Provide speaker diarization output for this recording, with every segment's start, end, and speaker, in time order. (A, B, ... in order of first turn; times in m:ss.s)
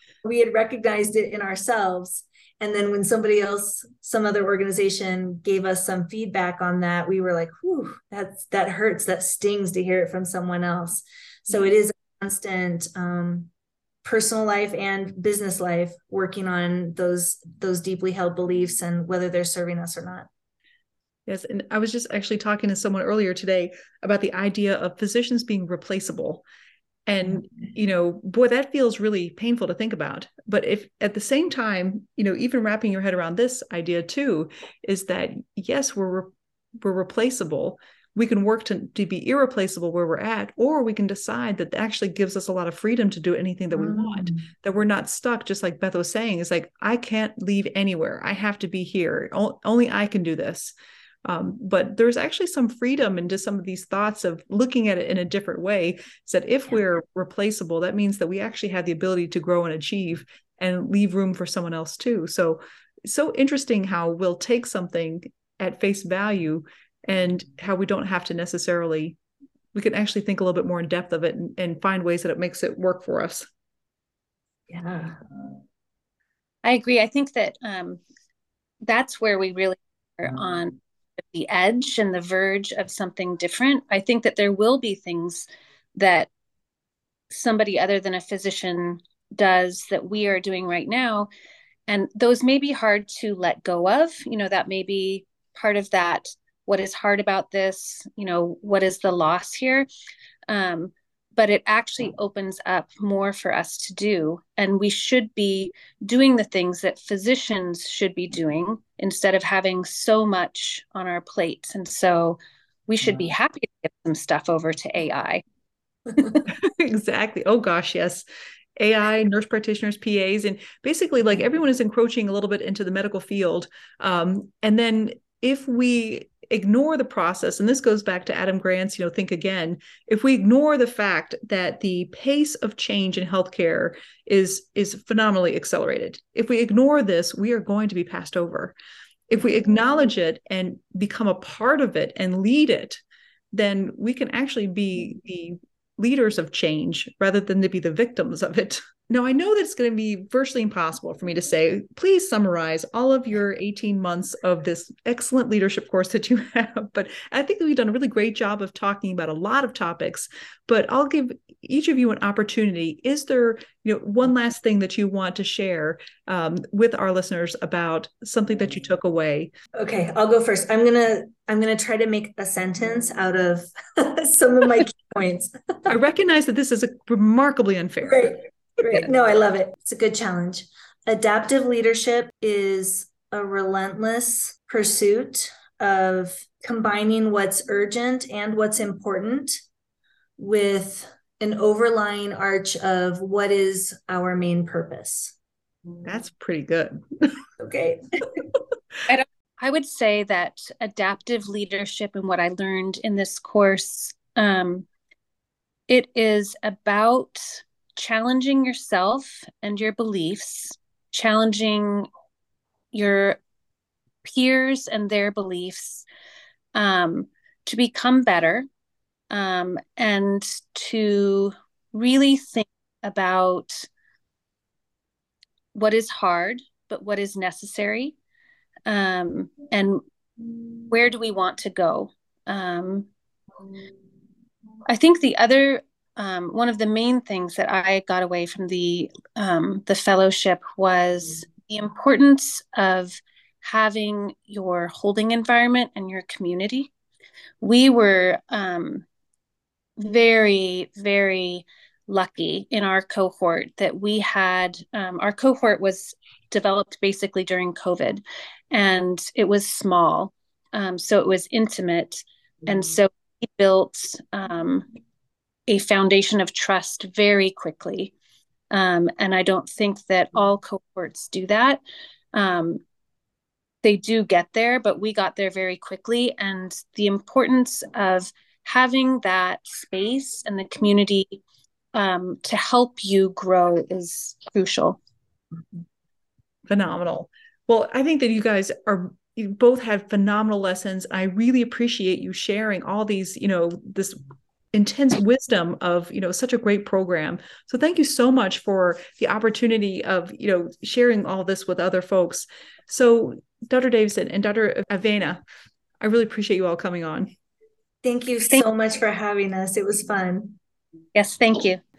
0:00.2-0:13.5 A
0:14.0-0:20.3 A
0:21.3-0:26.4 B
0:27.1-0:50.7 B
0:43.7-0:44.4 A
0:51.2-1:09.2 B
1:09.7-1:13.5 B
1:14.7-1:15.2 A
1:16.6-1:18.0 C
1:18.8-1:26.3 C
1:27.3-1:31.3 C
1:31.9-1:39.9 C
1:40.5-1:55.4 C
1:56.5-1:58.2 B
1:58.8-2:18.7 B
2:19.3-2:23.0 B
2:23.5-2:49.5 B
2:49.7-2:55.9 A
2:55.9-2:58.4 B
2:58.0-3:09.6 A
3:10.4-3:15.3 A
3:16.0-3:17.3 B
3:17.6-3:18.4 A
3:19.1-3:24.9 C
3:25.9-3:32.1 C
3:32.9-3:33.4 C
3:34.2-3:36.0 C
3:36.7-3:38.6 C
3:39.3-3:43.9 C
3:45.7-3:48.2 C
3:48.9-3:50.0 C
3:50.9-3:53.1 C
3:54.9-4:06.9 C
4:07.6-4:09.0 C
4:10.0-4:24.9 C
4:25.7-4:28.1 C
4:28.7-4:31.8 C
4:32.3-4:32.8 C
4:33.8-4:41.4 C
4:41.9-4:45.0 C
4:46.7-4:54.2 B
4:54.7-5:05.4 B
5:06.0-5:07.3 B
5:08.0-5:10.6 A
5:11.1-5:11.8 C